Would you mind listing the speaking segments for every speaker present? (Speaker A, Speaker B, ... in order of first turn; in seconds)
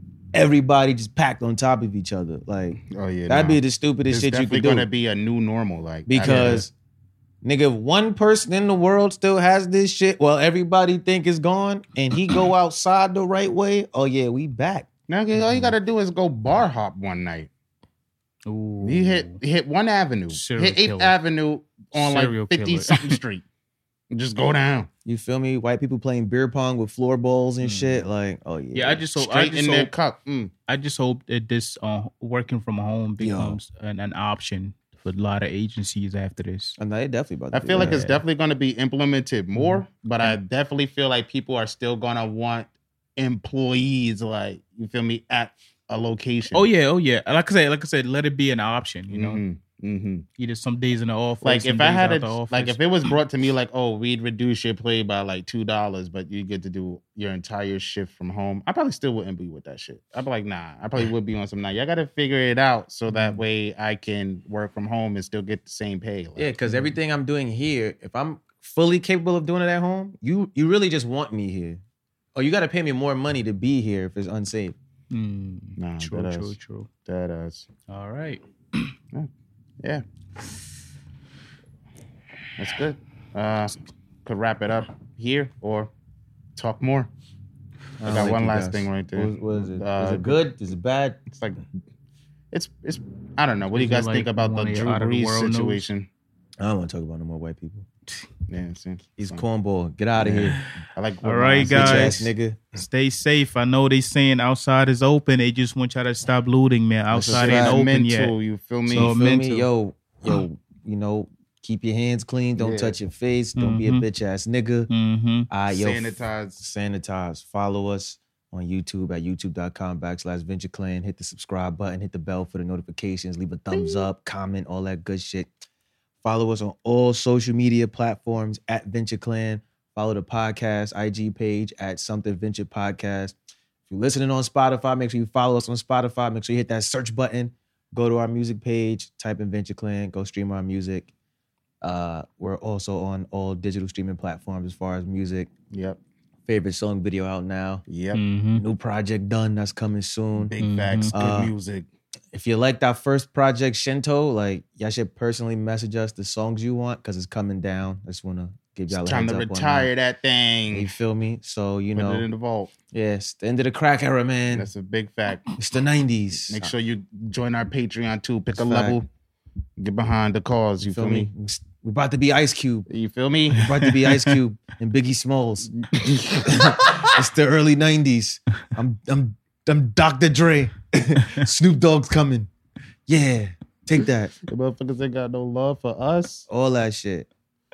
Speaker A: 0.3-4.9, 6.1-6.7, 7.4-14.9, 25.0-29.0, 33.2-33.6, 36.8-38.1, 66.4-71.8, 72.3-74.7, 88.0-91.2, 96.6-97.8, 99.2-100.6, 101.7-102.8, 107.1-107.8, 108.9-114.9, 115.5-125.5, 126.2-133.3, 133.9-141.1, 141.8-145.5, 146.5-147.8, 148.5-150.5, 151.1-151.5, 152.3-159.9, 160.7-162.2, 162.9-164.7, 165.6-166.7, 168.5-169.0, 170.8-172.8, 173.5-175.7, 176.4-182.5, 183.1-184.3, 186.5-187.3
Speaker B: 2.9-6.7, 15.1-17.5, 18.8-23.4, 24.1-24.9, 29.1-30.5, 37.5-46.6, 49.1-50.2, 51.4-66.5, 75.8-76.5, 77.0-77.7, 82.6-85.9, 86.5-87.1, 88.0-90.4, 91.3-91.6, 92.5-96.1, 98.5-99.4, 100.2-102.2, 107.2-109.1, 112.6-113.0, 115.7-116.6, 123.7-124.0, 145.7-146.0, 147.9-148.2, 150.4-151.9, 158.9-160.9, 161.9-162.7, 164.5-165.4, 166.5-169.1, 169.8-171.3, 172.9-173.7, 175.7-177.0, 184.5-186.4
Speaker C: 6.2-6.6, 15.4-15.7, 18.4-19.4, 20.3-21.1, 21.9-23.1, 27.6-28.0, 28.7-29.9, 30.7-36.8, 37.8-38.2, 39.5-40.4, 46.5-49.4, 50.4-52.8, 63.1-63.4, 66.7-66.9, 75.1-76.9, 77.9-78.9, 93.7-95.8, 100.4-100.7, 101.2-108.3, 108.9-109.7, 113.6-114.0, 114.9-115.5, 148.1-148.6, 150.6-151.1, 173.8-174.3